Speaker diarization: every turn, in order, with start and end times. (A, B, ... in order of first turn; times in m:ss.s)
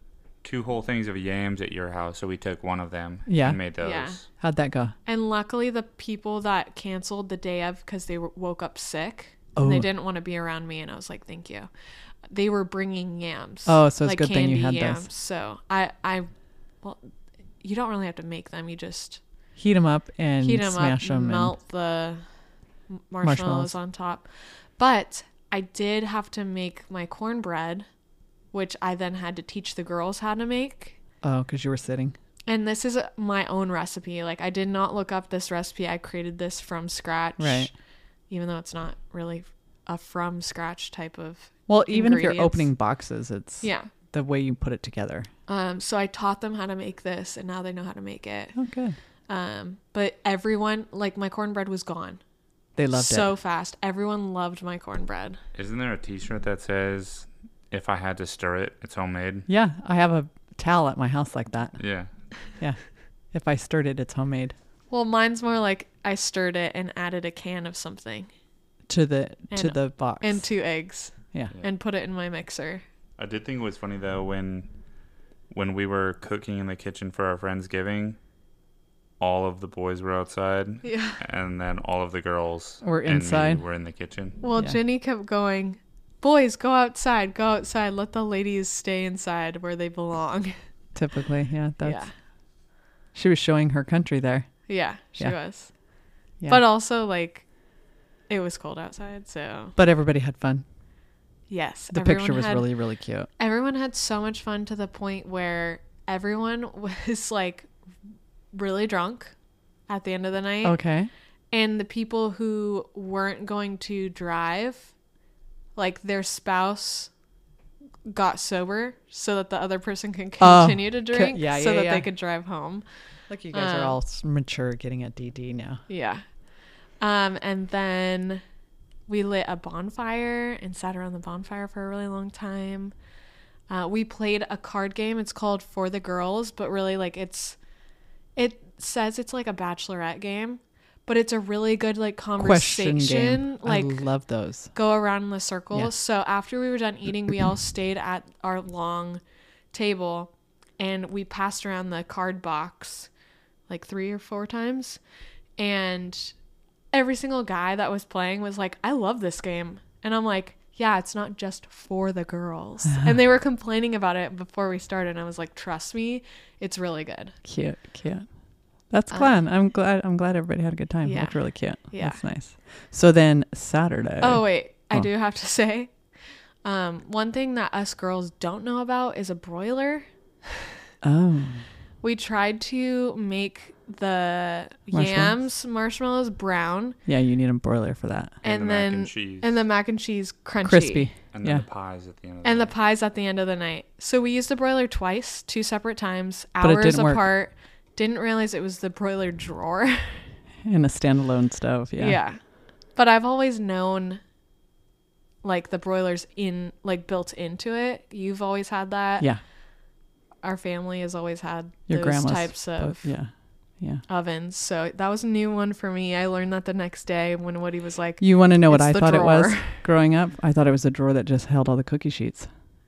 0:00.4-0:04.3 A
0:03.3-0:03.6 B
0:03.8-0:04.2 C
0:04.4-0:04.9 B
0:05.1-0:11.7 C
0:09.6-0:09.9 B
0:12.3-0:16.3 C
0:13.7-0:15.1 B
0:16.8-0:19.2 C
0:19.6-0:21.6 B
0:20.4-0:22.3 C
0:22.9-0:27.9 C
0:23.2-0:23.7 B
0:28.5-0:31.0 C
0:31.2-0:32.1 B
0:32.5-0:37.7 C
0:37.4-0:37.7 B
0:38.3-0:42.7 C
0:41.7-0:45.3 B
0:43.6-0:43.9 C
0:45.5-0:48.5 C
0:48.6-0:49.0 B
0:49.3-0:52.2 C
0:52.8-0:53.3 B
0:52.9-0:55.4 C
0:55.6-0:59.5 A
0:59.5-1:01.8 B
1:01.8-1:02.1 A
1:02.6-1:04.6 B
1:04.9-1:08.3 C
1:08.9-1:10.4 B
1:09.5-1:12.8 C
1:13.2-1:14.7 A
1:15.5-1:18.2 A
1:19.2-1:24.4 A
1:20.8-1:21.2 C
1:22.8-1:23.6 B
1:24.4-1:30.6 C
1:30.9-1:32.0 B
1:31.8-1:32.1 C
1:33.1-1:34.5 B
1:34.7-1:35.7 C
1:36.5-1:37.4 C
1:38.3-1:39.7 C
1:39.8-1:40.6 B
1:41.5-1:42.7 C
1:41.9-1:43.3 B
1:43.4-1:47.7 C
1:48.5-1:49.3 C
1:49.9-1:50.8 C
1:50.6-1:51.1 B
1:51.5-1:54.9 C
1:55.8-1:57.1 C
1:58.0-2:02.8 C
2:00.4-2:02.1 B
2:03.3-2:05.8 B
2:03.5-2:04.0 C
2:05.9-2:06.2 C
2:07.0-2:08.4 C
2:09.1-2:12.9 C
2:13.7-2:17.6 C
2:18.4-2:24.0 C
2:22.4-2:24.7 B
2:24.7-2:29.2 C
2:29.7-2:33.1 C
2:33.7-2:35.0 C
2:35.6-2:36.3 C
2:36.9-2:47.4 C
2:47.4-2:48.3 B
2:48.9-2:55.1 B
2:51.0-2:52.2 C
2:54.2-2:56.0 C
2:56.6-3:00.1 C
3:01.0-3:01.7 B
3:02.0-3:07.0 C
3:04.9-3:05.4 B
3:07.1-3:08.4 B
3:08.4-3:11.1 C
3:08.4-3:09.6 A
3:10.6-3:11.6 B
3:11.3-3:12.7 A
3:12.4-3:20.3 C
3:16.6-3:17.3 B
3:20.6-3:22.2 B
3:22.0-3:22.4 C
3:22.9-3:24.2 C
3:25.4-3:29.3 C
3:30.4-3:33.1 C
3:31.9-3:34.0 B
3:34.1-3:39.8 C
3:38.2-3:42.5 B